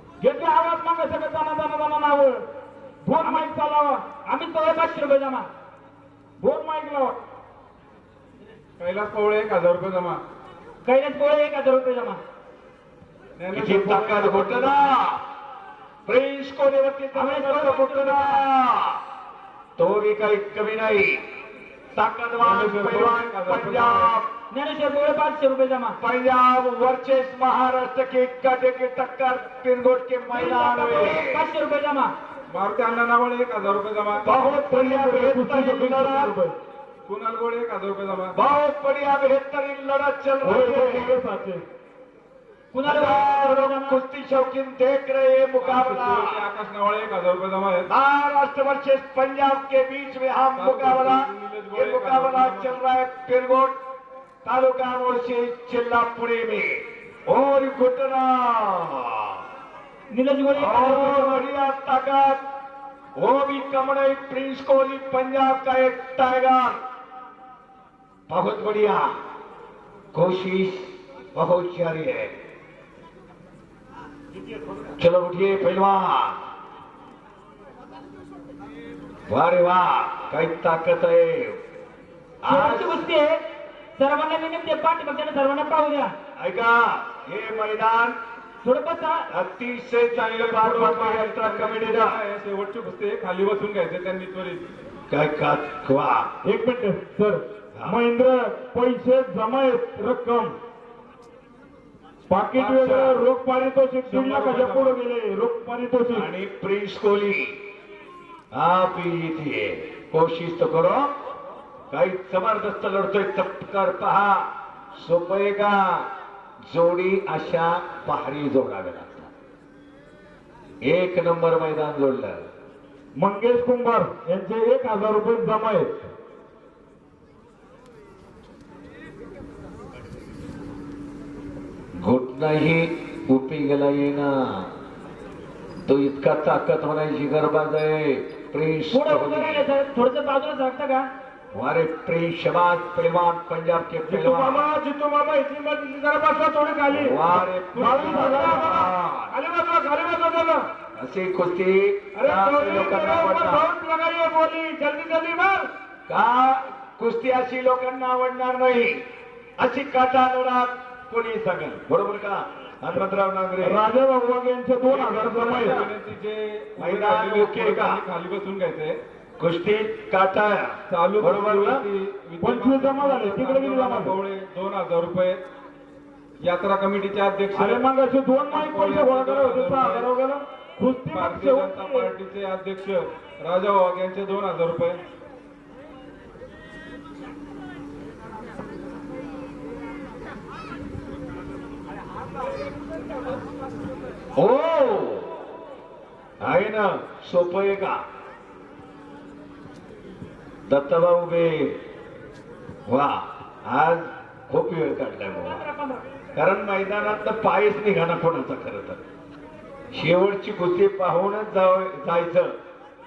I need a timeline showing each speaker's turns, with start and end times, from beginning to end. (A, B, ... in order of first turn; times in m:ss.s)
0:00.2-0:02.4 A
0:03.0-0:04.0 A
0:03.2-0:03.5 B
0:04.3-0:05.5 B
0:06.4-0:07.2 A
0:08.8-0:10.2 C
0:10.8-0:12.2 B
0:13.4-0:14.8 C
0:13.5-0:15.2 D
0:16.0-0:19.0 D
0:17.1-0:18.4 B
0:19.8-0:21.2 D
0:22.0-0:24.3 D
0:22.4-0:24.1 C
0:24.5-0:26.0 B
0:26.0-0:31.4 D
0:30.3-0:32.1 B
0:32.5-0:34.3 C
0:34.2-0:36.3 D
0:34.3-0:36.6 A
0:37.0-0:38.4 C
0:38.3-0:41.2 D
0:40.4-0:41.6 A
0:42.7-0:44.0 B
0:42.8-0:46.4 D
0:45.6-0:47.9 C
0:47.9-0:53.8 D
0:50.6-0:52.8 C
0:54.4-0:59.4 D
1:00.1-1:01.4 B
1:00.5-1:02.4 D
1:03.2-1:06.8 D
1:08.3-1:09.1 D
1:10.1-1:12.3 D
1:15.0-1:16.4 D
1:19.3-1:21.6 D
1:22.4-1:23.0 D
1:22.5-1:23.4 B
1:24.0-1:26.1 B
1:26.4-1:28.2 D
1:28.6-1:29.3 B
1:29.3-1:32.2 D
1:30.1-1:34.6 C
1:35.1-1:36.3 D
1:36.4-1:40.6 A
1:42.3-1:46.3 A
1:42.6-1:43.2 C
1:44.0-1:45.0 C
1:46.1-1:47.6 D
1:48.5-1:51.1 D
1:51.9-1:56.1 D
1:56.7-1:59.3 D
2:00.8-2:02.4 D
2:03.2-2:05.9 A
2:12.0-2:14.7 D
2:15.8-2:19.7 D
2:18.9-2:21.1 B
2:21.5-2:24.7 D
2:24.1-2:30.6 A
2:26.9-2:29.3 D
2:27.9-2:28.4 C
2:31.0-2:33.6 D
2:32.2-2:35.7 A
2:36.1-2:39.0 D
2:39.6-2:43.8 D
2:43.6-2:45.8 A
2:44.9-2:49.0 C
2:45.2-2:45.9 D
2:46.8-2:48.0 D
2:49.4-2:51.8 D
2:50.9-2:55.4 C
2:52.4-2:54.2 A
2:56.4-2:57.9 C
2:57.6-3:02.1 A
2:58.4-3:00.1 C
3:01.1-3:05.0 C
3:14.4-3:15.3 D
3:16.4-3:18.0 D
3:20.7-3:21.8 D
3:22.9-3:25.6 D
3:25.4-3:26.0 B
3:26.4-3:29.0 D
3:29.9-3:32.6 D